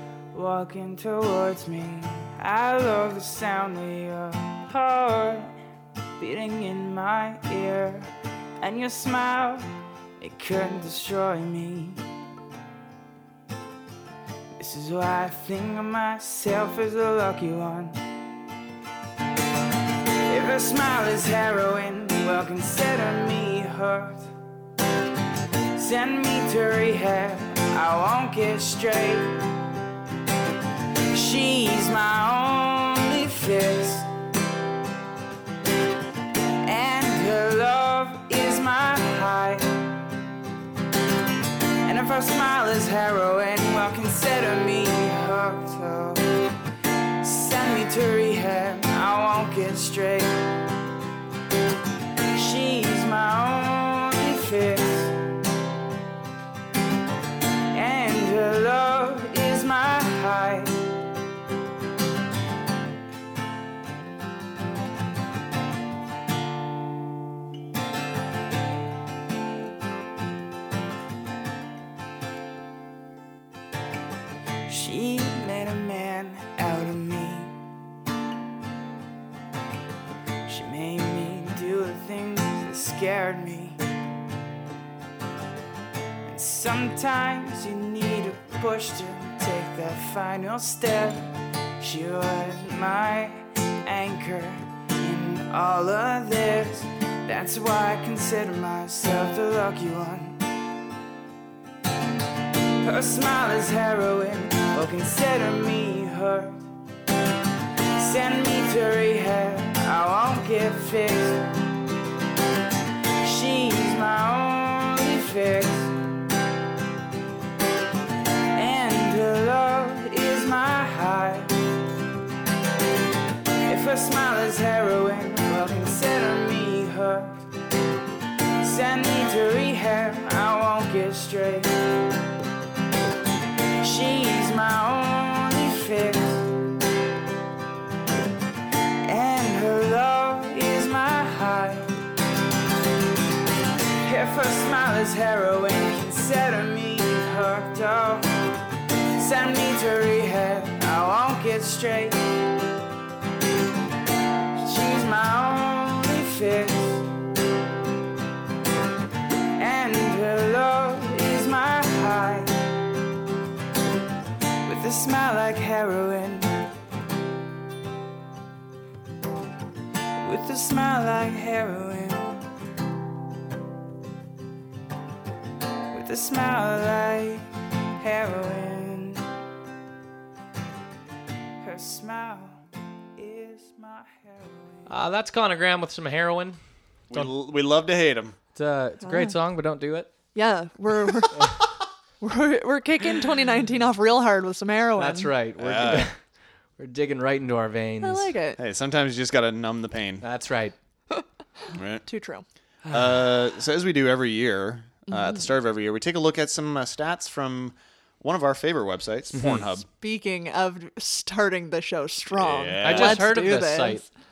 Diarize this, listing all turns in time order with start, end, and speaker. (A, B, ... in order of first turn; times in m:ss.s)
0:00.3-0:05.5 A
0:06.2-0:09.7 A
0:10.2-0:12.0 A
0:14.6-0:18.0 A
0:20.3-0:24.3 A
0:25.8-0:29.4 A
0:31.1-0:34.1 A
0:36.6-0:39.8 A
0:41.8-0:46.3 A
0:47.2-0:50.4 A
0:52.3-0:55.1 A
0:57.7-1:00.8 A
1:14.7-1:17.6 A
1:20.5-1:23.8 A
1:26.2-1:31.3 A
1:31.8-1:40.4 A
1:42.8-1:46.6 A
1:48.0-1:51.5 A
1:53.2-1:55.9 A
1:58.5-2:01.6 A
2:03.6-2:07.4 A
2:08.6-2:11.7 A
2:13.8-2:16.5 A
2:19.0-2:21.9 A
2:24.0-2:28.3 A
2:29.2-2:32.2 A
2:34.6-2:37.0 A
2:39.6-2:42.6 A
2:44.6-2:46.6 A
2:50.2-2:52.4 A
2:55.9-2:59.3 A
3:01.6-3:02.6 A
3:03.2-3:04.9 A
3:04.9-3:06.6 B
3:07.1-3:08.4 C
3:08.5-3:10.1 B
3:09.0-3:09.4 D
3:10.3-3:11.6 D
3:12.2-3:15.3 D
3:15.0-3:16.2 B
3:15.6-3:16.1 C
3:16.8-3:18.3 B
3:18.0-3:18.6 D
3:18.6-3:20.2 C
3:20.2-3:20.7 B
3:21.7-3:22.0 C
3:22.0-3:22.4 D
3:22.9-3:29.8 C
3:25.1-3:25.4 D
3:29.3-3:29.7 B
3:29.9-3:34.1 D
3:32.3-3:33.2 C
3:32.8-3:34.0 B